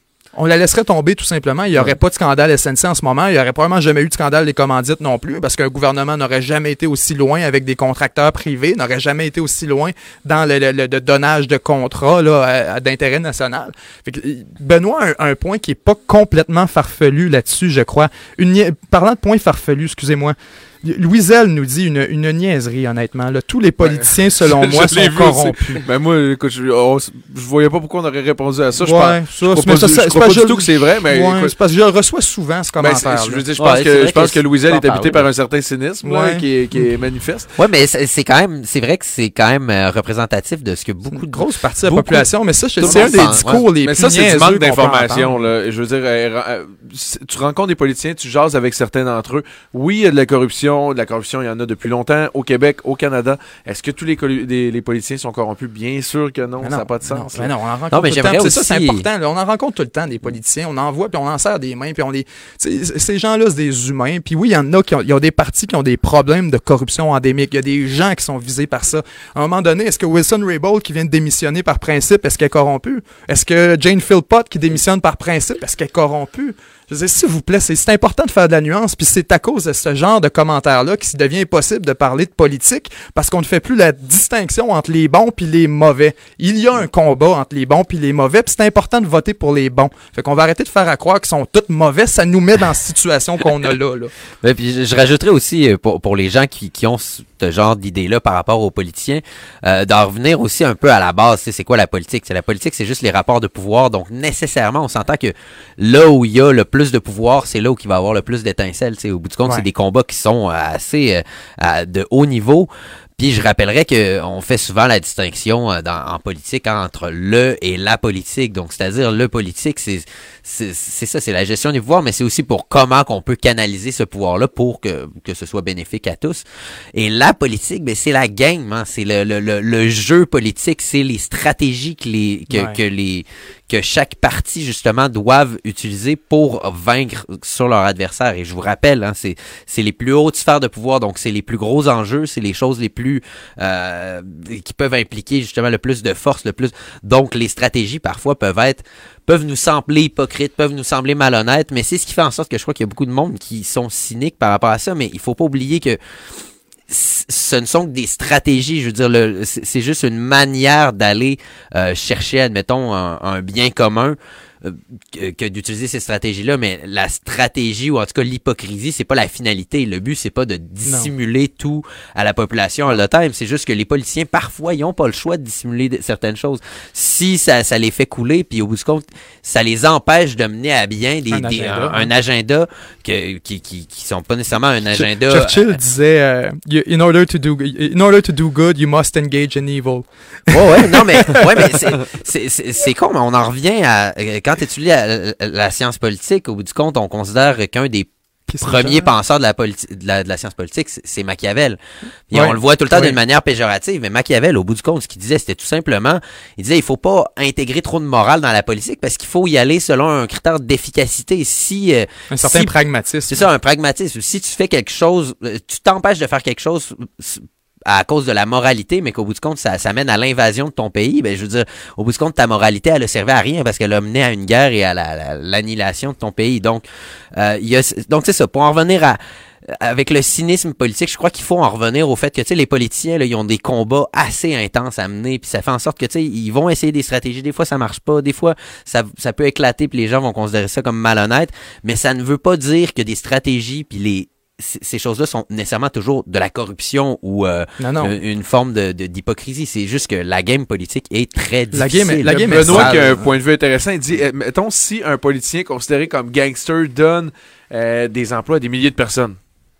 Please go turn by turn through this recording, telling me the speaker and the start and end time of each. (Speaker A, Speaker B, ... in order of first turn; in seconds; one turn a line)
Speaker A: 0.3-25.8
Speaker B: 23.8-31.5
Speaker A: 28.8-33.4
Speaker B: 32.8-37.5
Speaker C: 33.6-35.3
Speaker A: 36.0-36.9
Speaker C: 37.6-42.2
Speaker A: 41.1-45.4
Speaker C: 42.8-43.6
Speaker B: 42.8-57.5
Speaker A: 56.6-94.1
Speaker C: 57.9-59.1
Speaker C: 94.4-156.0
Speaker A: 132.5-132.8
Speaker C: 156.9-185.8
Speaker A: 170.8-171.1
Speaker A: 181.3-182.1
Speaker A: 184.9-192.0
Speaker C: 190.5-198.1
Speaker A: 198.5-199.1
Speaker C: 198.6-201.8
Speaker C: 202.3-212.7
Speaker A: 202.3-203.1
Speaker A: 212.3-213.4
Speaker C: 213.3-253.0
Speaker A: 247.8-248.1
Speaker A: 251.7-253.3
Speaker B: 252.2-259.4